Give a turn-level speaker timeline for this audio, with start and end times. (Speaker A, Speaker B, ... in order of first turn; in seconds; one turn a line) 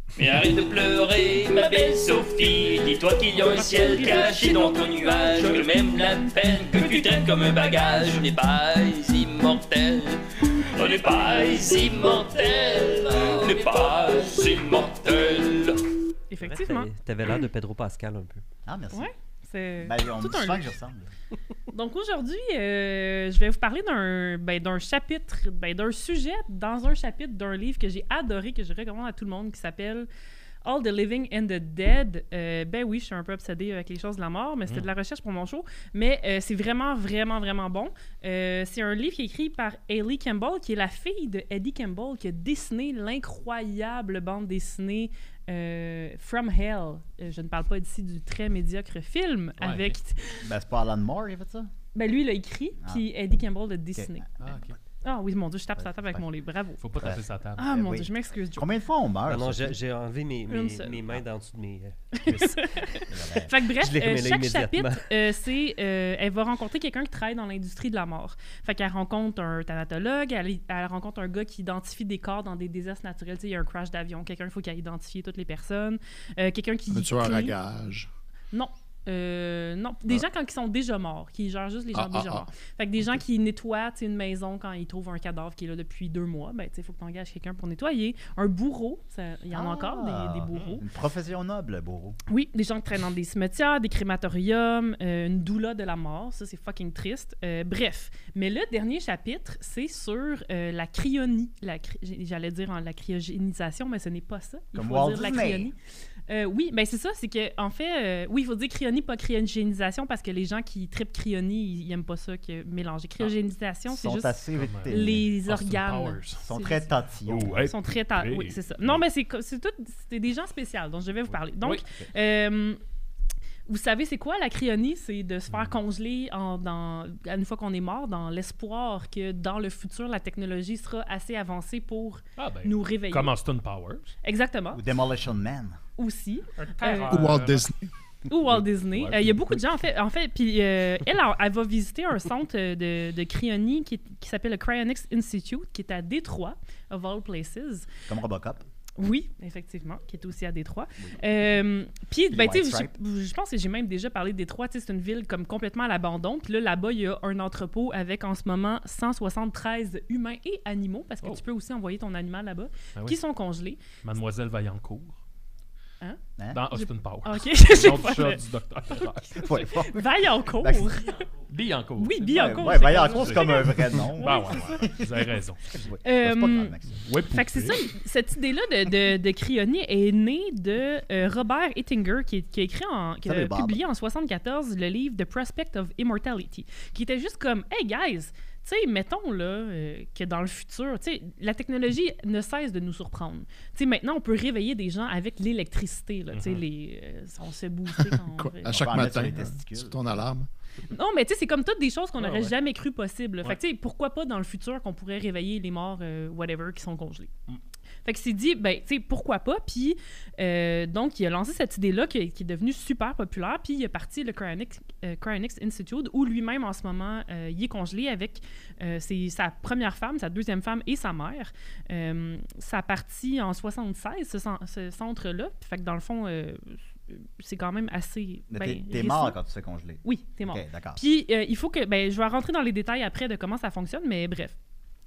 Speaker A: 0.1-15.8
Speaker B: 3.4-5.5
Speaker B: 16.3-16.9
Speaker C: 16.4-18.4
Speaker D: 18.6-19.1
Speaker B: 18.9-20.6
Speaker D: 19.8-21.1
Speaker B: 21.7-30.1
Speaker B: 30.6-50.4
Speaker E: 49.6-49.9
Speaker D: 50.4-51.7
Speaker B: 51.9-54.2
Speaker D: 52.8-53.0
Speaker D: 53.9-54.3
Speaker E: 54.4-54.8
Speaker B: 55.0-56.9
Speaker D: 55.8-56.2
Speaker E: 56.8-57.7
Speaker D: 56.9-59.8
Speaker B: 57.5-58.7
Speaker C: 59.3-63.0
Speaker B: 60.5-61.0
Speaker B: 62.1-77.5
Speaker D: 63.1-63.5
Speaker C: 63.8-65.0
Speaker F: 76.9-78.1
Speaker B: 78.5-90.8
Speaker F: 81.9-82.5
Speaker D: 89.5-92.2
Speaker B: 92.3-105.8
Speaker D: 104.7-105.7
Speaker B: 106.3-116.9
Speaker D: 113.9-115.3
Speaker E: 114.6-116.4
Speaker D: 116.4-117.7
Speaker E: 117.2-119.0
Speaker B: 117.5-122.8
Speaker B: 123.7-133.3
Speaker E: 125.5-125.8
Speaker E: 132.4-134.1
Speaker B: 134.2-134.8
Speaker D: 134.7-135.8
Speaker B: 136.0-137.2
Speaker E: 136.6-137.7
Speaker F: 137.1-137.9
Speaker B: 138.2-147.9
Speaker E: 138.5-139.6
Speaker D: 148.1-148.6
Speaker B: 149.0-163.8
Speaker D: 152.3-152.9
Speaker E: 164.0-165.2
Speaker B: 166.0-171.3
Speaker E: 166.5-169.5
Speaker D: 169.4-170.9
Speaker E: 171.4-175.7
Speaker B: 172.0-175.0
Speaker D: 172.3-177.1
Speaker B: 176.0-198.8
Speaker E: 177.0-177.9
Speaker D: 183.2-183.8
Speaker E: 196.3-196.6
Speaker F: 198.2-200.5
Speaker D: 198.7-200.0
Speaker B: 200.9-207.3
Speaker E: 202.2-202.5
Speaker B: 208.0-229.4
Speaker D: 228.5-231.0
Speaker B: 230.0-234.5